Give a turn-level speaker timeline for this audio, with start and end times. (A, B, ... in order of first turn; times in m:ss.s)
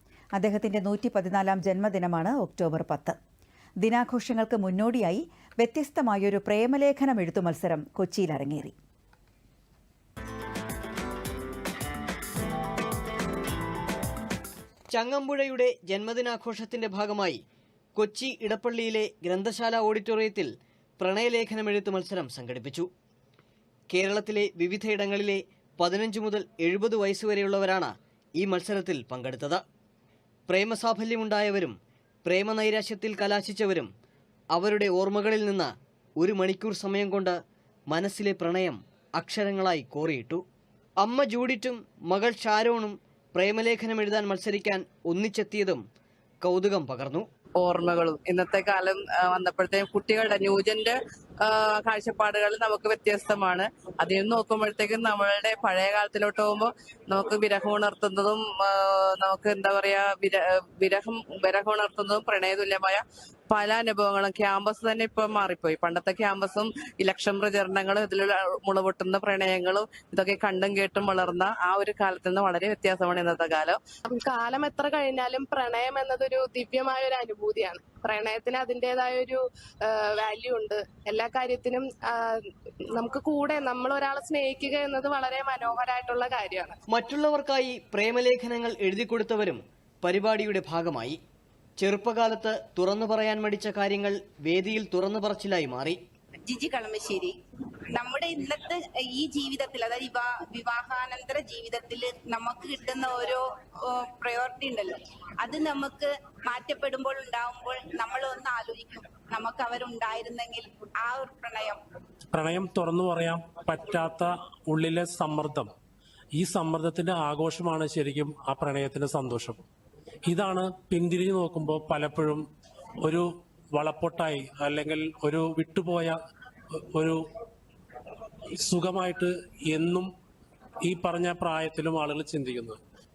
0:00.4-0:03.2 A
0:03.8-0:08.8 A
0:14.9-0:17.4 B
0:18.0-0:22.9 B
0:23.9-0:29.6 B
0:30.5-0:33.9 B
0:34.5-0:37.4 B
0:37.9-0:40.4 B
0:41.0-0:45.8 B
0:46.4-0:47.3 B
0:47.6-1:13.8 C
1:14.1-1:22.4 D
1:22.9-1:26.8 D
1:26.9-1:31.2 B
1:31.8-1:36.0 B
1:36.5-1:37.4 E
1:38.0-1:51.8 E
1:52.3-1:55.7 F
1:56.4-1:59.6 F
2:00.3-2:02.4 F
2:03.0-2:06.2 F
2:06.9-2:07.2 F
2:08.6-2:10.1 F
2:10.8-2:12.8 F